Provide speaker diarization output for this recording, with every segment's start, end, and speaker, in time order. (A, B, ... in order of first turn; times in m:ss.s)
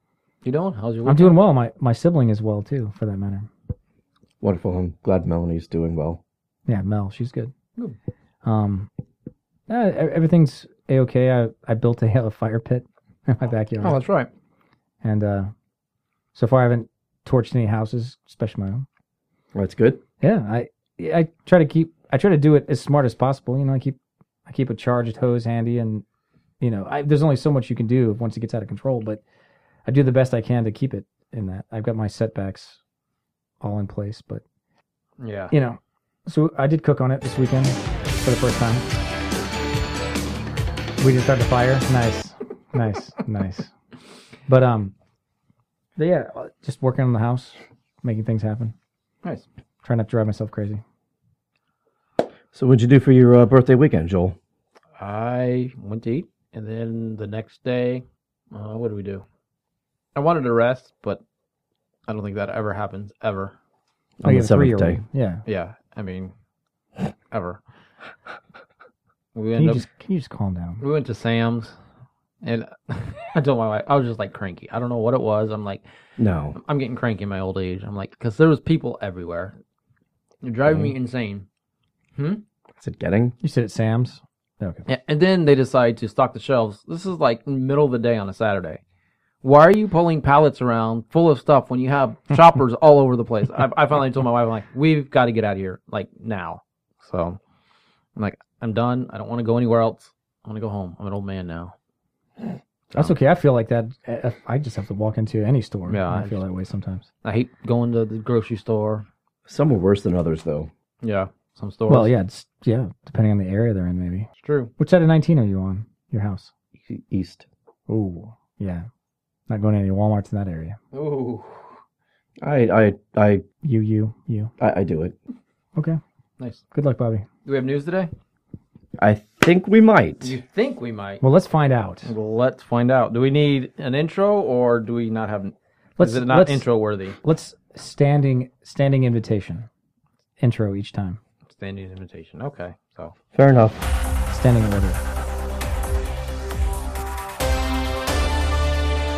0:00.4-0:01.4 A
0:01.0-0:03.5 B
0:04.4-0:06.2 C
0:06.7-0:07.5 B
0:08.4-0:08.9 B
0:09.7-0:14.0 B
0:13.8-0:14.3 A
0:15.0-0:15.5 B
0:16.3-0:18.8 B
0:19.5-0:20.0 C
0:20.2-0:26.0 B
0:26.6-0:29.2 B
0:29.8-0:32.8 B
0:33.6-0:34.4 B
0:35.2-0:35.5 A
0:35.5-0:38.8 B
0:41.0-0:43.7 B
0:44.5-0:44.9 B
0:46.0-0:48.7 B
0:49.8-0:50.8 B
0:52.5-0:54.4 C
0:55.0-0:59.2 A
1:00.1-1:01.2 A
1:02.1-1:03.5 A
1:04.2-1:05.0 C
1:04.2-1:05.4 B
1:05.4-1:06.3 A
1:07.3-1:07.6 A
1:09.3-1:09.8 A
1:09.5-1:10.8 B
1:10.8-1:11.7 A
1:12.4-1:15.8 A
1:16.2-1:16.6 C
1:16.5-1:19.5 A
1:20.4-1:21.4 A
1:20.7-1:20.9 C
1:22.2-1:22.4 A
1:22.8-1:23.4 C
1:23.4-1:24.8 B
1:24.8-1:28.8 A
1:29.4-1:37.4 A
1:38.2-1:41.7 A
1:42.9-1:43.2 A
1:43.0-1:47.0 B
1:45.9-1:46.4 A
1:47.2-1:49.0 A
1:49.5-1:50.7 C
1:51.0-1:52.1 A
1:51.9-1:56.5 B
1:54.4-1:54.7 A
1:56.8-1:57.4 C
1:57.9-1:58.9 B
1:59.5-2:00.8 B
2:00.9-2:01.7 A
2:02.4-2:03.4 C
2:03.6-2:04.5 B
2:04.6-2:05.2 C
2:06.7-2:07.2 B
2:07.4-2:08.1 A
2:09.0-2:10.4 C
2:10.2-2:11.2 A
2:11.2-2:12.1 B
2:12.0-2:17.2 A
2:16.0-2:16.7 B
2:17.2-2:19.7 B
2:20.4-2:21.2 B
2:21.5-2:23.1 A
2:23.3-2:23.8 C
2:24.3-2:25.0 B